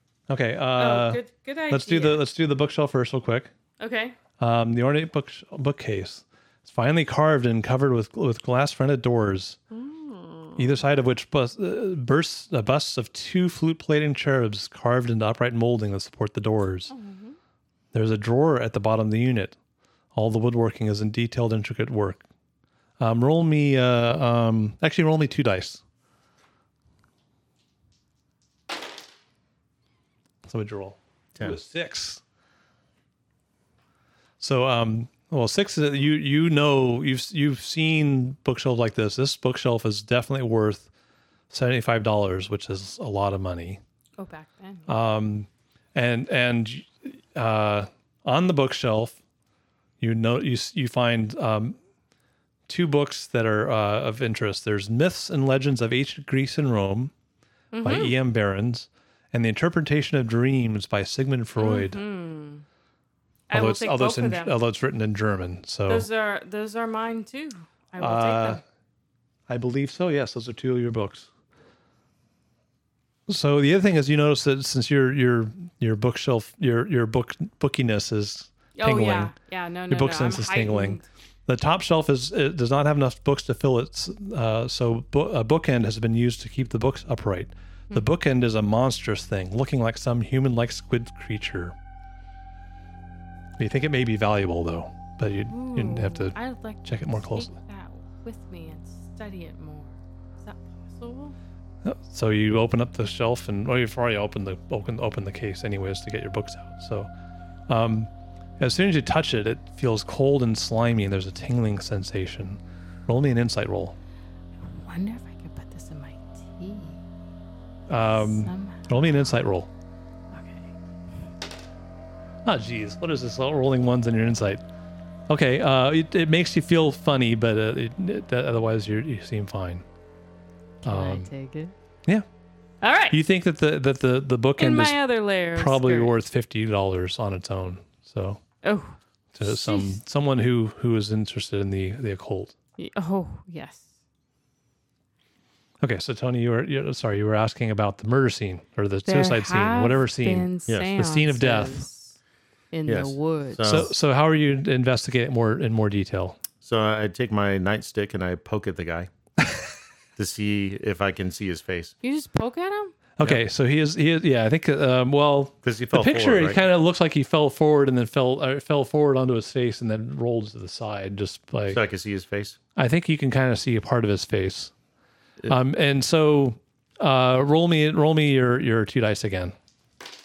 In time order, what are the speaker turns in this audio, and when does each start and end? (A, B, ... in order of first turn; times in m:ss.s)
0:00.3-0:03.5 A
0:00.8-0:02.2 B
0:03.8-0:04.2 B
0:04.4-0:09.6 A
0:09.7-0:10.8 B
0:10.6-0:16.9 A
0:16.9-0:17.4 B
0:17.9-0:19.6 A
0:20.1-0:22.2 A
0:23.0-0:25.8 A
0:30.5-0:32.2 A
0:34.4-0:40.9 A
0:41.5-0:43.8 A
0:44.2-0:44.9 B
0:44.9-0:49.2 A
0:50.0-0:51.8 A
0:52.7-0:57.1 A
0:57.7-0:58.2 B
0:57.8-1:02.0 A
1:01.6-1:02.6 B
1:03.5-1:04.6 B
1:03.5-1:06.1 A
1:05.9-1:08.6 B
1:08.0-1:08.6 A
1:09.5-1:11.3 A
1:13.3-1:19.3 A
1:18.8-1:21.0 B
1:19.9-1:31.7 A
1:33.6-1:37.5 A
1:35.5-1:41.4 B
1:41.8-1:47.1 A
1:47.7-1:54.0 A
1:54.6-1:57.0 B
1:57.9-1:59.7 A
1:58.1-1:59.2 B
2:00.3-2:00.7 B
2:02.4-2:04.6 A
2:05.3-2:09.8 A
2:10.8-2:11.7 B
2:10.8-2:11.3 A
2:12.8-2:13.2 B
2:13.1-2:15.0 A
2:14.6-2:16.2 B
2:15.6-2:18.4 A
2:18.6-2:20.0 B
2:19.3-2:22.6 A
2:22.8-2:23.9 B
2:25.8-2:31.8 A
2:29.1-2:32.2 B
2:32.7-2:33.9 B
2:32.9-2:33.9 C
2:33.6-2:36.4 A
2:36.6-2:39.1 C
2:39.4-2:39.7 A
2:40.2-2:42.0 C
2:42.0-2:43.0 B
2:43.2-2:51.8 A
2:45.6-2:46.6 C
2:51.7-2:52.6 C
2:52.8-2:54.7 A
2:55.5-2:59.6 A